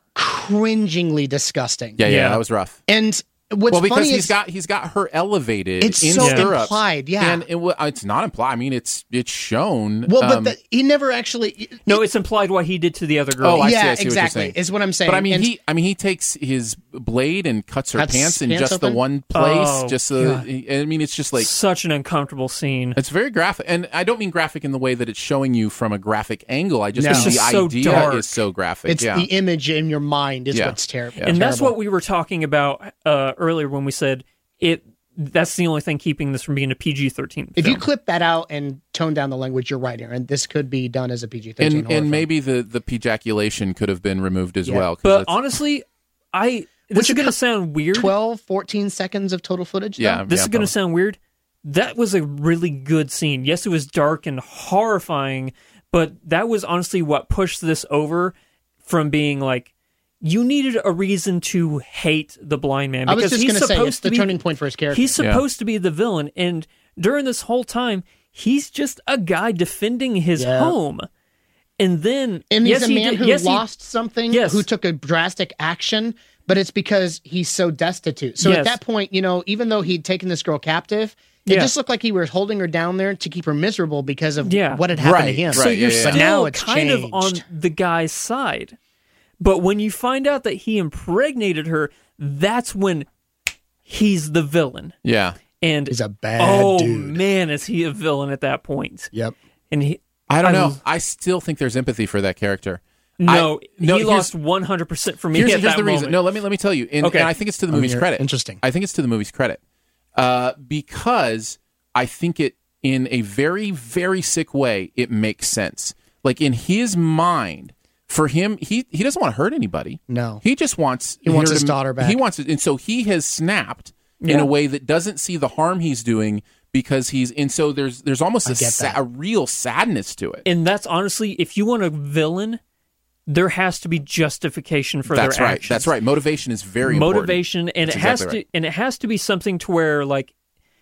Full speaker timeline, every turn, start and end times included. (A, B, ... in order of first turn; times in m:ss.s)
0:00.1-0:02.0 A
0:02.0-0:02.8 B
0:02.0-0:02.4 C
0:02.9-0:04.3 A
0:03.7-0:10.5 B
0:05.8-0:07.4 A
0:06.2-0:06.5 C
0:10.1-0:12.0 A
0:11.8-0:13.6 C
0:13.4-0:21.5 B
0:13.6-0:15.5 A
0:17.9-0:19.0 A
0:19.3-0:20.0 C
0:20.2-0:20.4 A
0:21.4-0:23.0 C
0:23.0-0:29.3 B
0:26.9-0:28.1 A
0:27.1-0:28.3 C
0:28.9-0:31.7 A
0:30.5-0:31.4 B
0:31.2-0:37.8 C
0:37.6-0:42.2 A
0:41.6-0:45.4 B
0:45.0-0:48.1 C
0:46.9-0:47.3 A
0:47.9-0:50.2 A
0:50.0-0:50.7 B
0:50.2-0:59.7 C
1:00.2-1:04.3 C
1:03.1-1:05.2 A
1:04.9-1:11.0 C
1:10.4-1:10.7 A
1:11.8-1:13.6 C
1:12.5-1:27.4 A
1:14.3-1:14.6 C
1:18.4-1:18.8 C
1:21.4-1:21.7 C
1:24.4-1:24.8 C
1:24.9-1:26.2 B
1:25.5-1:28.8 C
1:29.4-1:33.1 C
1:33.8-1:34.9 C
1:35.0-1:35.4 B
1:35.6-1:39.1 C
1:35.9-1:37.2 A
1:39.7-1:40.8 C
1:40.3-1:44.3 B
1:43.2-1:46.2 C
1:45.3-1:49.6 B
1:47.0-1:47.3 C
1:47.7-1:48.6 A
1:50.2-2:10.4 B
2:00.1-2:00.4 A
2:01.2-2:02.2 A
2:04.2-2:04.5 C
2:08.4-2:09.0 A
2:10.4-2:12.6 C
2:13.3-2:15.9 C
2:15.1-2:18.4 B
2:16.8-2:20.3 C